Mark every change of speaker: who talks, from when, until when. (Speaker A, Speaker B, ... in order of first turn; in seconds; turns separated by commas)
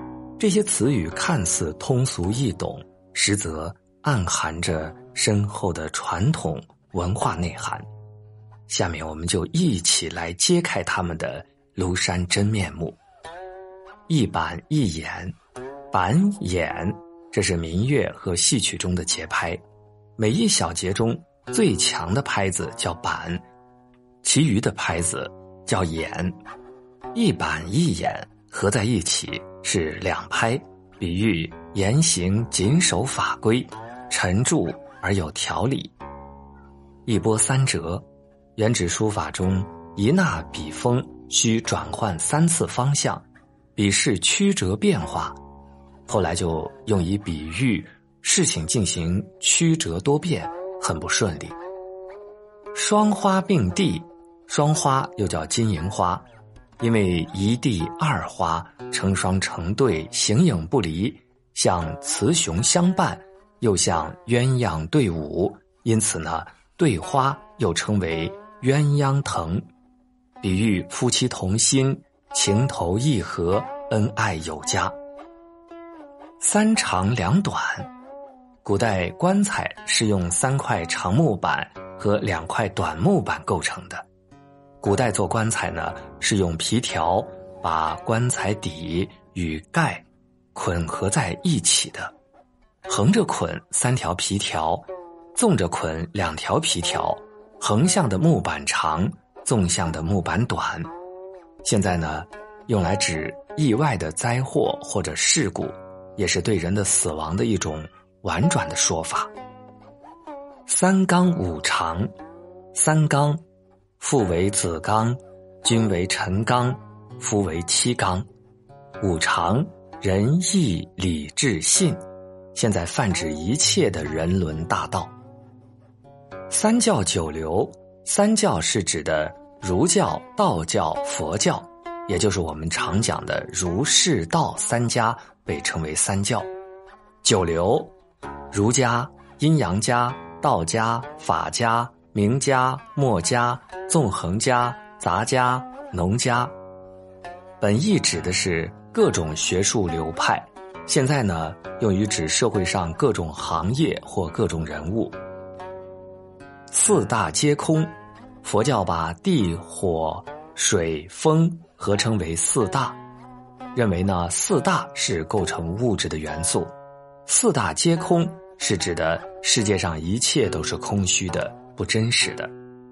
Speaker A: 0.4-7.9, Speaker A: 8.7-13.0, Speaker A: 14.1-15.4, Speaker A: 15.9-19.6, Speaker A: 20.2-23.5, Speaker A: 24.2-26.4, Speaker A: 27.1-36.0, Speaker A: 37.1-45.4, Speaker A: 46.1-51.6, Speaker A: 52.7-56.3, Speaker A: 56.8-69.7, Speaker A: 70.4-75.0, Speaker A: 76.4-77.9, Speaker A: 78.6-84.1, Speaker A: 84.8-92.2, Speaker A: 92.9-100.9, Speaker A: 101.6-109.3, Speaker A: 110.7-112.1, Speaker A: 112.7-113.4, Speaker A: 114.0-118.3, Speaker A: 119.0-122.0, Speaker A: 122.5-125.2, Speaker A: 126.5-136.5, Speaker A: 137.2-137.9, Speaker A: 138.5-146.6, Speaker A: 147.6-155.2, Speaker A: 156.7-163.0, Speaker A: 163.7-166.7, Speaker A: 167.3-172.5